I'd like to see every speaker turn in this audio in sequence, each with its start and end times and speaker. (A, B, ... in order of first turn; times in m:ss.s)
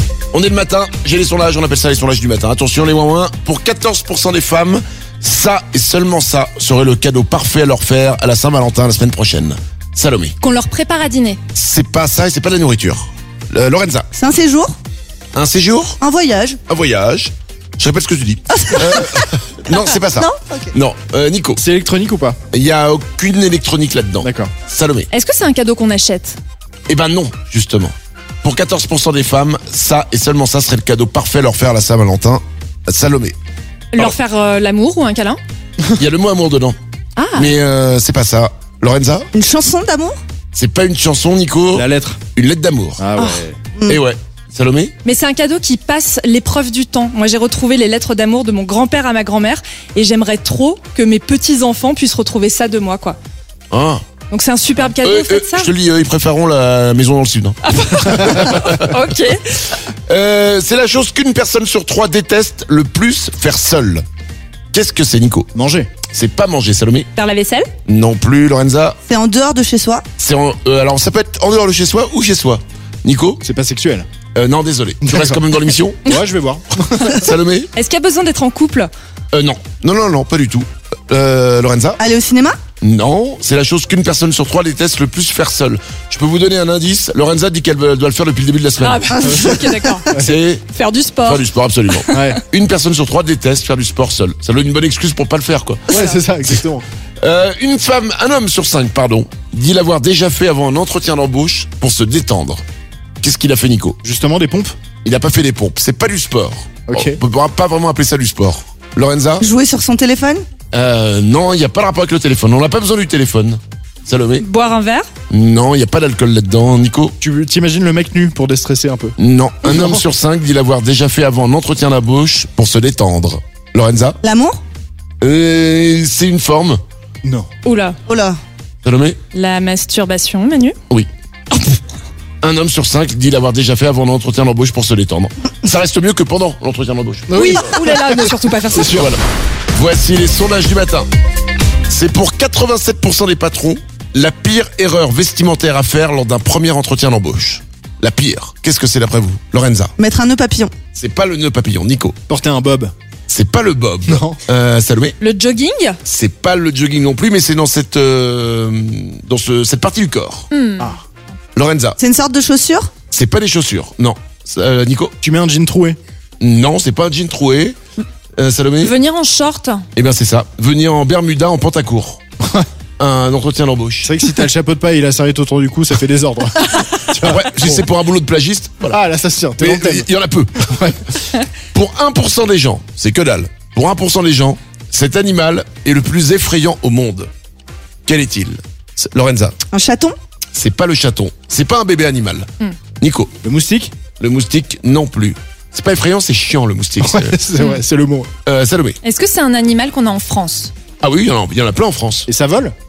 0:00.3-0:10.4 A
0:10.4-0:11.4 B
0:11.5-0:14.1 A
0:14.1-0:14.7 C
0:15.3-0:16.0 A
0:16.0-0:16.6 C
0:16.7-0:21.6 A
0:18.7-0:19.2 C
0:20.2-0:20.7 C
0:21.6-0:22.4 D
0:22.5-0:25.1 A
0:24.2-0:24.5 D
0:25.1-0:26.4 B
0:26.9-0:33.4 A
0:33.9-0:35.4 B
0:36.0-0:36.8 A
0:37.2-0:37.6 B
0:37.4-0:39.3 A
0:39.3-0:40.2 C
0:40.5-0:43.1 A
0:41.7-0:42.2 D
0:43.0-0:43.6 D
0:43.8-0:44.0 C
0:43.9-0:45.0 A
0:45.0-0:53.2 B
0:53.7-0:54.0 A
0:54.3-0:55.7 B
0:55.0-0:58.9 A
0:57.6-0:59.6 B
1:00.1-1:04.0 A
1:04.7-1:05.5 A
1:05.5-1:06.0 D
1:06.0-1:07.1 A
1:07.2-1:07.7 B
1:07.9-1:09.0 A
1:09.1-1:10.0 C
1:10.2-1:13.4 A
1:13.4-1:14.1 D
1:14.4-1:16.2 A
1:15.0-1:15.4 D
1:16.1-1:17.2 D
1:17.1-1:17.7 A
1:17.7-1:18.9 B
1:19.3-1:22.0 A
1:22.0-1:22.6 C
1:22.8-1:29.4 A
1:28.8-1:30.1 B
1:29.2-1:30.4 D
1:30.1-1:30.6 A
1:30.7-1:32.4 B
1:31.2-1:36.0 A
1:32.1-1:32.4 D
1:35.9-1:36.2 B
1:35.9-1:36.9 D
1:37.2-1:42.6 A
1:43.2-1:44.0 A
1:44.0-1:44.8 D
1:45.0-1:49.5 A
1:46.9-1:47.2 D
1:49.4-1:50.4 C
1:50.7-1:54.5 A
1:54.4-1:55.1 B
1:55.3-1:57.2 A
1:57.2-2:00.0 D
1:59.2-2:04.2 A
2:04.2-2:04.6 C
2:05.2-2:06.8 A
2:07.2-2:07.5 D
2:07.6-2:08.0 B
2:08.1-2:08.4 C
2:08.8-2:09.2 A
2:09.3-2:10.8 B
2:12.4-2:17.5 A
2:17.3-2:19.1 D
2:17.4-2:19.0 B
2:18.9-2:19.2 A
2:19.7-2:21.1 A
2:21.9-2:29.9 A
2:30.0-2:30.7 C
2:31.0-2:32.2 A
2:32.3-2:32.9 D
2:33.3-2:35.2 A
2:34.1-2:34.4 D
2:35.2-2:36.0 B
2:36.1-2:40.5 A
2:40.5-2:41.0 B
2:41.6-2:42.0 A
2:42.0-2:42.9 C
2:43.1-2:45.2 A
2:45.2-2:46.0 D
2:46.4-2:47.8 A
2:48.4-2:49.0 A
2:48.8-2:49.9 B
2:50.0-2:52.2 A
2:52.4-2:52.7 D
2:53.0-2:54.2 A
2:54.0-2:57.9 D
2:57.2-2:59.0 A
2:58.9-3:00.1 D
2:59.6-3:01.0 A
3:00.6-3:01.0 D
3:01.7-3:07.3 A
3:08.1-3:09.6 A
3:09.7-3:10.2 C
3:10.6-3:12.5 A
3:13.0-3:13.4 A
3:13.4-3:14.0 D
3:14.2-3:17.4 A
3:17.0-3:18.3 D
3:17.6-3:17.8 B
3:18.4-3:19.0 A
3:19.0-3:20.7 B
3:21.0-3:22.3 A
3:22.3-3:22.7 D